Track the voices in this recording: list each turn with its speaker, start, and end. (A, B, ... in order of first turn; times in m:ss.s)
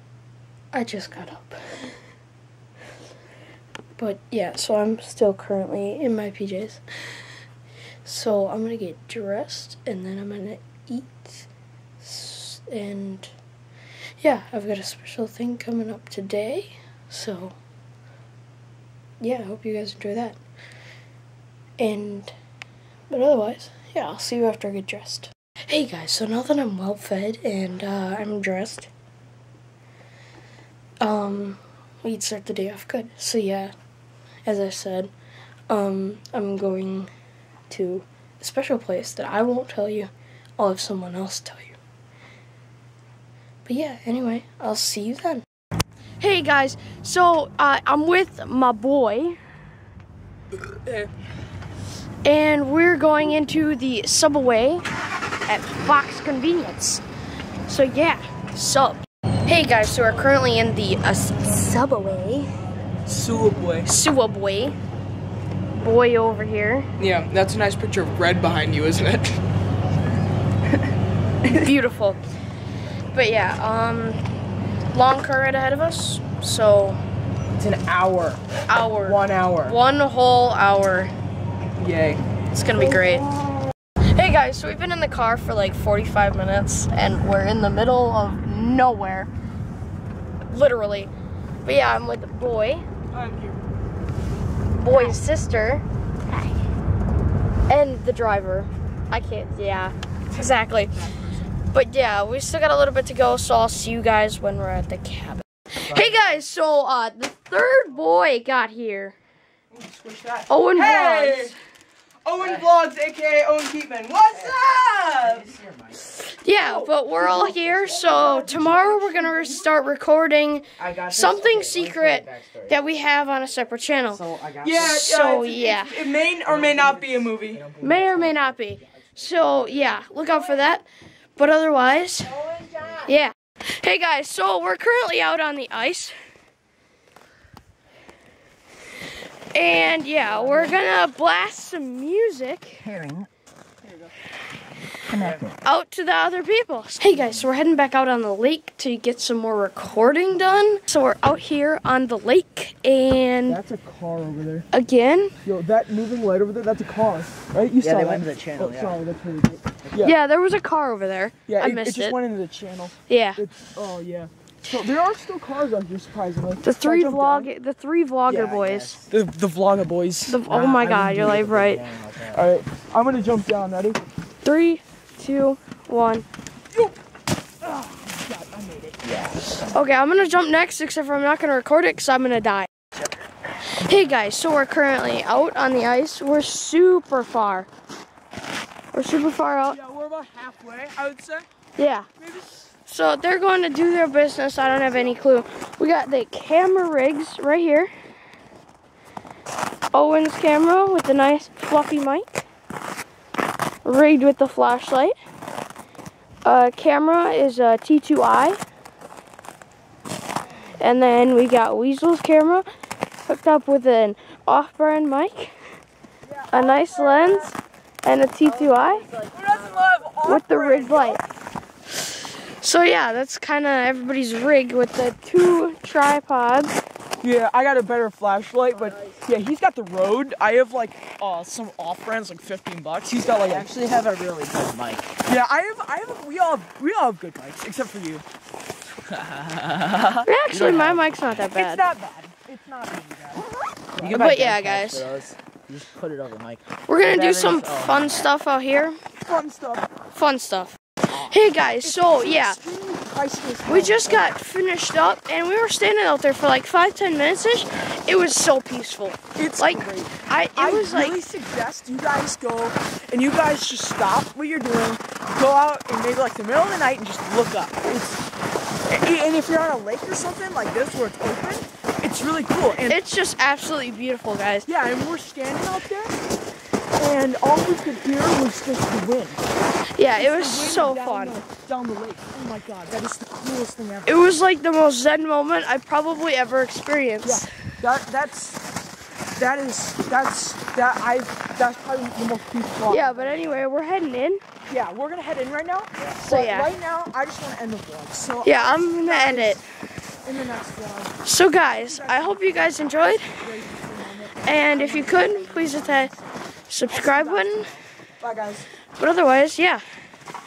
0:00.7-0:01.7 A
0:04.0-0:06.8 A
0:08.0-0:11.5 A
0:12.0-0:13.3 A
0:14.2-0:17.6 A
0:19.2-0:20.4 A
0:21.8-0:22.3 A
0:23.1-0:28.9 A
0:31.0-0:33.7 A
0:34.4-0:35.1 A
0:35.7-0:37.1 A
0:37.7-0:41.8 A
0:43.6-0:45.4 A
0:46.2-0:49.4 A
0:52.2-0:54.8 A
0:55.5-0:57.0 A
0:57.7-1:02.5 A
1:03.1-1:03.9 B
1:03.8-1:04.8 A
1:05.7-1:06.9 A
1:07.0-1:09.4 B
1:11.5-1:12.2 A
1:13.1-1:14.2 A
1:14.9-1:17.0 A
1:17.6-1:18.4 B
1:18.7-1:21.1 A
1:19.0-1:19.8 B
1:21.8-1:22.2 B
1:22.5-1:23.3 A
1:24.1-1:29.3 A
1:30.5-1:31.1 A
1:31.6-1:32.8 A
1:33.1-1:33.6 B
1:34.7-1:36.5 A
1:37.7-1:41.0 A
1:41.0-1:41.3 B
1:41.6-1:49.2 A
1:49.7-1:51.5 B
1:50.5-1:51.5 A
1:52.2-1:55.5 B
1:52.4-1:52.6 C
1:54.3-1:54.6 C
1:55.2-1:56.0 C
1:56.2-2:04.2 A
1:56.6-1:59.7 B
2:00.8-2:02.8 C
2:04.1-2:05.0 C
2:04.6-2:07.7 B
2:04.8-2:06.0 A
2:06.4-2:10.3 C
2:07.8-2:12.4 A
2:12.4-2:13.1 C
2:13.0-2:16.1 A
2:19.5-2:22.9 A
2:22.8-2:23.3 C
2:25.1-2:25.6 C
2:25.6-2:33.6 A
2:33.5-2:34.7 B
2:34.7-2:35.3 A
2:35.4-2:40.1 B
2:37.8-2:39.0 C
2:40.0-2:42.2 A
2:41.5-2:47.5 B
2:43.1-2:43.4 A
2:46.6-2:49.0 A
2:48.2-2:49.1 C
2:49.1-2:51.5 B
2:50.2-2:51.8 A
2:51.2-2:52.4 C
2:52.3-2:54.0 B
2:54.4-2:56.2 A
2:56.7-2:57.0 B
2:57.6-2:59.2 B
2:59.0-2:59.6 C
2:59.7-3:02.7 A
3:03.7-3:07.7 A
3:08.9-3:09.8 A
3:09.7-3:11.5 B
3:11.8-3:12.1 A
3:12.2-3:12.6 B
3:12.8-3:17.9 A
3:14.6-3:15.3 B
3:19.9-3:22.4 A
3:23.8-3:25.1 A
3:26.4-3:28.6 A
3:30.8-3:32.6 A
3:33.2-3:35.5 A
3:36.2-3:37.5 B
3:36.5-3:39.0 A
3:38.4-3:40.2 C
3:39.2-3:41.2 B
3:40.2-3:41.2 A
3:42.6-3:46.8 A
3:47.2-3:53.7 B
3:48.7-3:49.2 C
3:53.1-3:55.1 C
3:55.2-3:58.2 B
3:59.4-3:59.8 C
3:59.8-4:00.2 B
4:00.2-4:01.8 A
4:00.5-4:01.1 C
4:01.5-4:04.2 B
4:04.0-4:08.3 C
4:04.0-4:05.1 A
4:06.9-4:09.0 A
4:09.2-4:09.9 B
4:10.1-4:12.6 A
4:11.8-4:14.3 B
4:13.6-4:21.2 A
4:19.4-4:28.2 B
4:28.9-4:33.0 B
4:32.8-4:34.7 A
4:34.7-4:36.1 B
4:37.0-4:39.5 B
4:40.0-4:41.4 A
4:40.0-4:44.4 B
4:44.0-4:47.4 A
4:47.2-4:48.6 B
4:49.4-4:53.6 B
4:52.9-4:54.4 A
4:54.7-4:59.6 B
4:56.2-4:56.7 A
4:58.4-4:59.6 A
5:00.2-5:06.2 B
5:01.2-5:03.3 A
5:04.4-5:06.1 A
5:06.7-5:07.7 A
5:06.9-5:08.7 B
5:09.0-5:09.8 A